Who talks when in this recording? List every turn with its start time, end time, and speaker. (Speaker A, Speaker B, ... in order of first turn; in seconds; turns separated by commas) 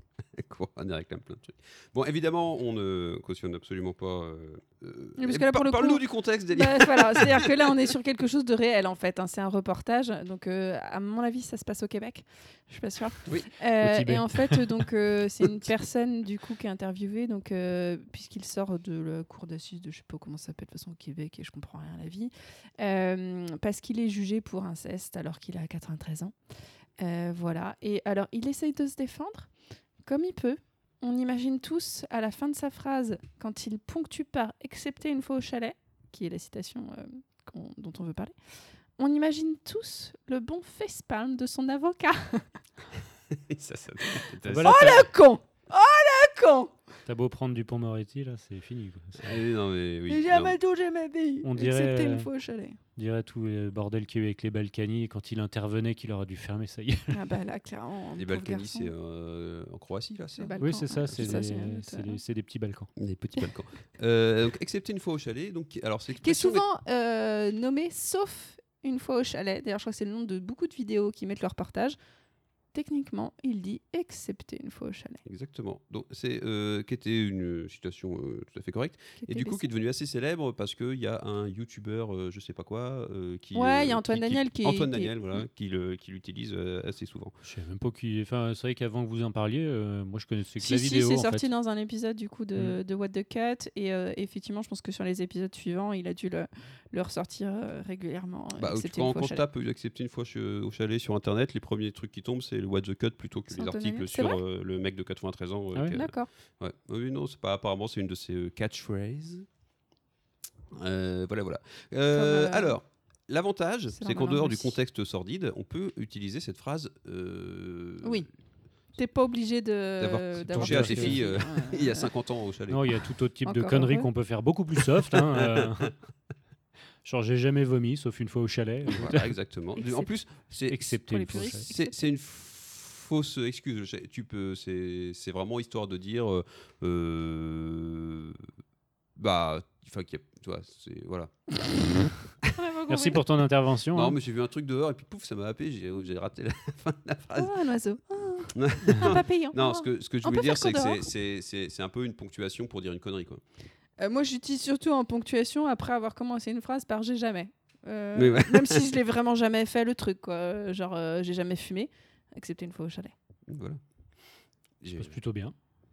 Speaker A: 0.4-7.8, Speaker B: 5.2-26.3, Speaker C: 13.8-14.6, Speaker B: 27.0-29.5, Speaker B: 30.1-38.4, Speaker B: 39.0-42.5, Speaker A: 43.3-45.0, Speaker C: 44.5-45.1, Speaker B: 44.6-46.7, Speaker C: 47.1-49.3, Speaker A: 49.2-50.6, Speaker B: 50.1-52.8, Speaker C: 51.4-52.3, Speaker C: 53.0-57.2, Speaker B: 57.1-58.9, Speaker A: 58.2-61.5, Speaker B: 60.4-62.2, Speaker C: 60.6-62.9, Speaker A: 63.0-66.7, Speaker B: 66.2-72.0, Speaker B: 72.7-75.2, Speaker A: 75.2-87.3, Speaker B: 79.2-79.7, Speaker B: 83.5-85.2, Speaker C: 87.4-91.5, Speaker B: 90.6-99.4, Speaker A: 98.6-109.5, Speaker B: 103.5-104.4, Speaker B: 105.9-106.3, Speaker A: 110.7-118.3, Speaker B: 112.1-112.8, Speaker B: 113.9-114.8, Speaker B: 119.0-122.1, Speaker A: 120.0-122.9, Speaker C: 120.5-121.2, Speaker C: 122.7-125.9, Speaker B: 123.5-124.1, Speaker A: 125.4-125.9, Speaker C: 127.0-129.3, Speaker A: 128.9-138.4, Speaker B: 129.8-130.1, Speaker C: 130.7-131.7, Speaker B: 131.1-132.0, Speaker A: 139.2-141.4, Speaker B: 142.5-143.2, Speaker C: 142.9-144.2, Speaker A: 143.9-147.5, Speaker B: 147.4-151.0, Speaker A: 148.6-153.4, Speaker B: 154.0-163.1, Speaker A: 158.2-158.8, Speaker A: 163.5-163.8, Speaker A: 164.8-165.2, Speaker C: 165.0-165.5